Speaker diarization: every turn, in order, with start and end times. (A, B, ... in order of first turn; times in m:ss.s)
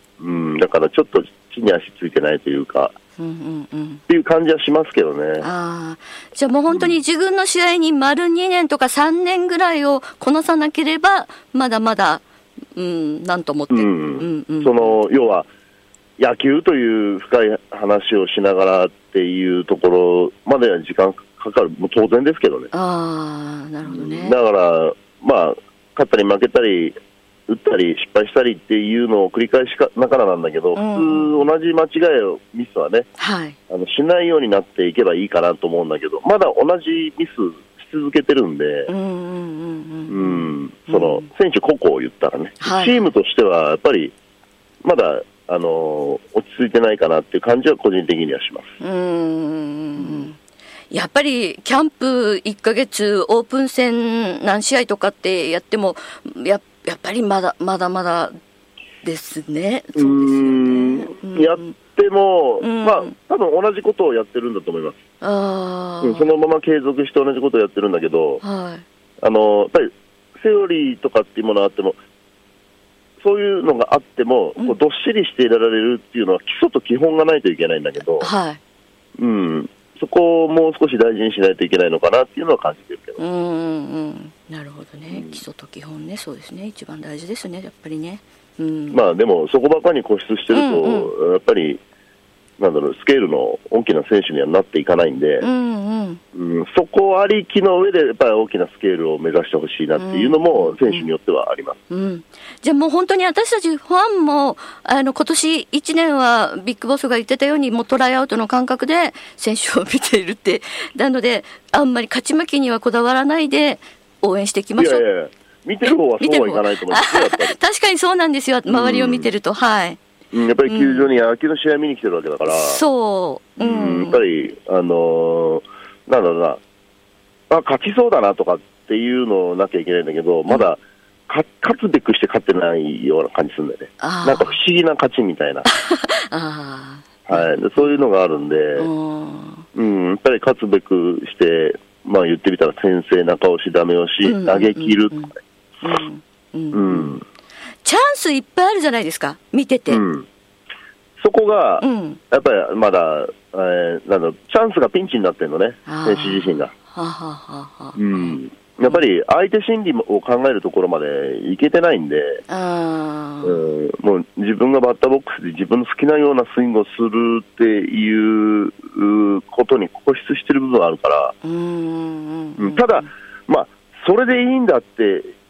0:00.2-0:02.9 A
0:03.2-0:04.0 B
0:04.1-0:05.5 A
0:05.4-0:15.0 B
0:06.7-0:07.0 A
0:13.7-0:15.5 A
0:16.2-0:22.7 A
0:22.7-0:24.3 B
0:23.8-0:27.0 A
0:27.5-0:33.1 A
0:30.7-0:31.5 B
0:33.2-0:33.6 B
0:33.7-0:38.9 A
0:38.9-0:41.3 B
0:40.1-0:44.1 A
0:42.6-0:43.0 B
0:44.8-0:48.7 A
0:48.8-0:50.4 B
0:50.0-0:50.3 A
0:50.9-0:58.4 B
0:59.0-1:01.8 B
1:00.0-1:05.0 A
1:02.6-1:03.1 B
1:05.2-1:06.3 B
1:06.0-1:08.4 A
1:08.4-1:08.8 B
1:09.2-1:12.0 A
1:13.2-1:18.3 A
1:18.2-1:18.6 B
1:19.2-1:23.2 A
1:23.2-1:29.0 B
1:25.1-1:25.4 A
1:28.9-1:31.8 A
1:30.5-1:31.1 B
1:32.6-1:35.4 A
1:35.4-1:36.2 B
1:36.3-1:41.8 A
1:40.0-1:41.0 B
1:41.9-1:55.0 B
1:54.8-1:57.6 A
1:55.9-2:00.0 B
1:58.7-1:59.3 A
2:00.3-2:02.8 A
2:00.6-2:01.1 B
2:02.4-2:04.2 B
2:03.6-2:06.6 A
2:07.5-2:15.7 A
2:14.0-2:14.6 B
2:15.6-2:18.0 B
2:17.3-2:18.9 A
2:18.8-2:19.6 B
2:19.7-2:25.2 A
2:24.2-2:27.2 B
2:26.7-2:27.2 A
2:27.8-2:30.0 B
2:29.9-2:30.3 A
2:31.2-2:36.7 A
2:31.8-2:32.2 B
2:35.8-2:39.0 B
2:38.0-2:42.4 A
2:42.5-2:43.7 B
2:43.4-2:51.3 A
2:51.4-2:53.1 B
2:52.6-2:55.3 A